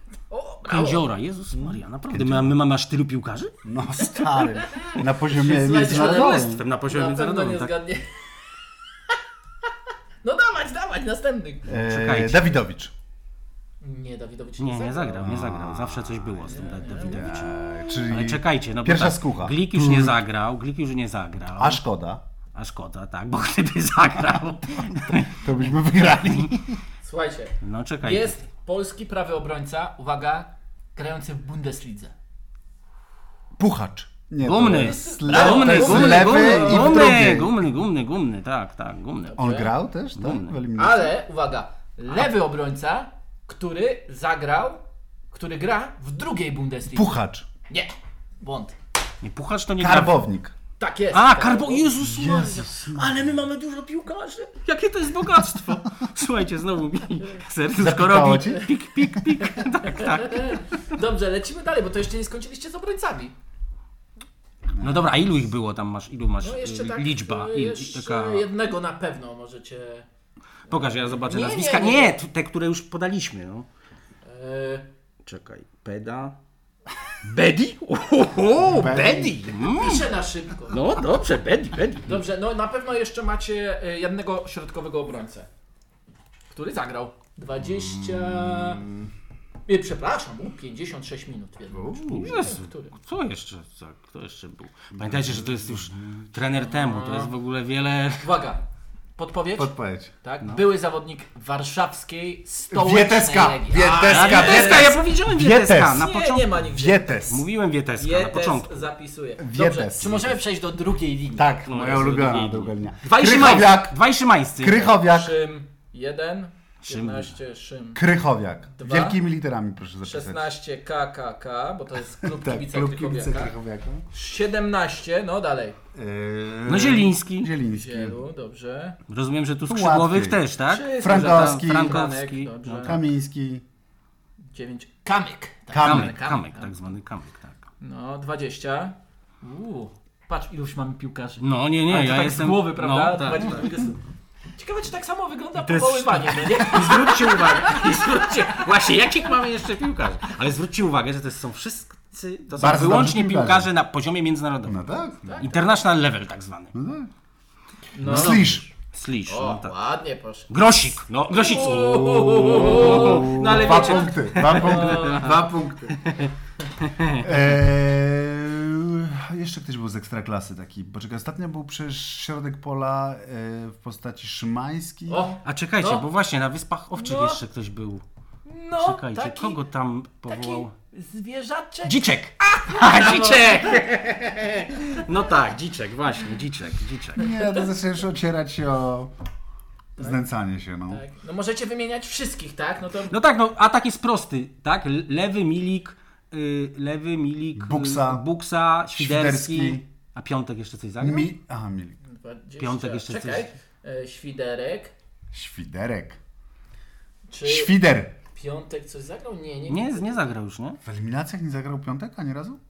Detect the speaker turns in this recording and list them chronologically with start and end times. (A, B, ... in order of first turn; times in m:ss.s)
0:00.3-0:01.1 A
0:00.7-0:03.5 B
0:01.5-0:02.6 C
0:03.6-0:06.6 C
0:04.2-0:08.3 A
0:05.8-0:07.7 B
0:10.2-0:11.7 A
0:11.7-0:12.9 C
0:11.7-0:12.4 B
0:13.8-0:15.3 A
0:14.6-0:21.8 B
0:15.2-0:16.4 C
0:16.5-0:17.3 A
0:17.0-0:20.2 C
0:21.6-0:22.2 C
0:22.6-0:26.6 B
0:25.4-0:26.8 C
0:27.0-0:32.1 A
0:27.6-0:28.4 B
0:33.6-0:37.5 C
0:34.4-0:39.4 B
0:34.6-0:37.1 A
0:39.3-0:39.7 A
0:39.4-0:41.1 C
0:40.2-0:40.5 B
0:40.8-0:47.2 A
0:46.9-0:47.5 C
0:47.7-0:48.8 A
0:49.2-0:50.2 B
0:49.8-0:50.5 C
0:50.8-0:52.0 A
0:51.1-1:00.6 B
0:52.0-0:53.3 C
0:57.8-0:58.7 C
0:59.9-1:03.3 A
1:04.8-1:05.1 C
1:04.8-1:08.5 B
1:06.4-1:10.1 A
1:10.7-1:12.2 A
1:10.7-1:13.7 B
1:14.2-1:14.9 A
1:15.2-1:16.4 B
1:17.2-1:20.1 B
1:18.6-1:19.6 C
1:19.6-1:20.8 A
1:20.7-1:22.2 B
1:22.1-1:25.5 A
1:26.5-1:28.9 A
1:28.5-1:29.1 C
1:29.7-1:32.9 A
1:31.7-1:32.5 C
1:32.0-1:38.3 B
1:35.0-1:36.4 C
1:36.5-1:37.3 A
1:38.2-1:38.6 A
1:39.2-1:45.0 A
1:39.6-1:40.1 C
1:42.7-1:47.4 C
1:44.0-1:46.6 B
1:45.9-1:47.3 A
1:47.3-1:48.9 B
1:48.0-1:52.0 A
1:49.4-1:50.4 C
1:51.3-1:54.0 C
1:51.6-1:55.0 B
1:54.6-1:55.4 C
1:55.0-1:58.0 A
1:56.9-1:57.3 B
1:58.0-2:00.5 C
1:58.7-1:59.2 A
2:00.0-2:03.5 A
2:02.1-2:04.0 C
2:04.1-2:05.8 A
2:06.0-2:08.2 C
2:06.7-2:07.5 B
2:07.7-2:09.0 A
2:09.1-2:13.0 B
2:09.7-2:10.4 C
2:10.7-2:13.0 A
2:10.9-2:12.1 C
2:12.8-2:13.6 C
2:14.5-2:16.7 A
2:15.7-2:16.2 C
2:15.8-2:17.6 B
2:17.8-2:24.0 A
2:21.4-2:23.7 B
2:24.6-2:29.3 A
2:25.6-2:34.8 B
2:32.6-2:33.7 C
2:34.7-2:35.4 C
2:35.2-2:35.8 A
2:35.4-2:36.8 B
2:36.7-2:37.1 C
2:37.9-2:38.5 A
2:38.0-2:38.7 C
2:38.1-2:39.8 B
2:39.3-2:40.5 A
2:40.5-2:45.4 B
2:41.3-2:45.3 A
2:42.4-2:46.1 C
2:46.0-2:47.4 B
2:47.2-2:55.3 C
2:55.1-2:56.1 A
2:55.4-2:58.0 B
2:57.0-2:57.4 A
2:58.5-2:59.6 A
2:58.8-3:00.7 B
3:00.3-3:03.8 A
3:01.8-3:07.3 B
3:07.2-3:09.1 C
3:07.2-3:07.5 A
3:10.0-3:11.0 C
3:10.9-3:13.2 A
3:13.1-3:21.3 B
3:17.6-3:18.2 C
3:19.0-3:19.8 C
3:21.0-3:22.0 C
3:22.0-3:24.9 A
3:22.6-3:23.5 B
3:25.3-3:26.2 C
3:27.3-3:27.7 A
3:27.4-3:28.2 C
3:28.3-3:30.3 A
3:29.7-3:30.8 B
3:30.8-3:32.6 C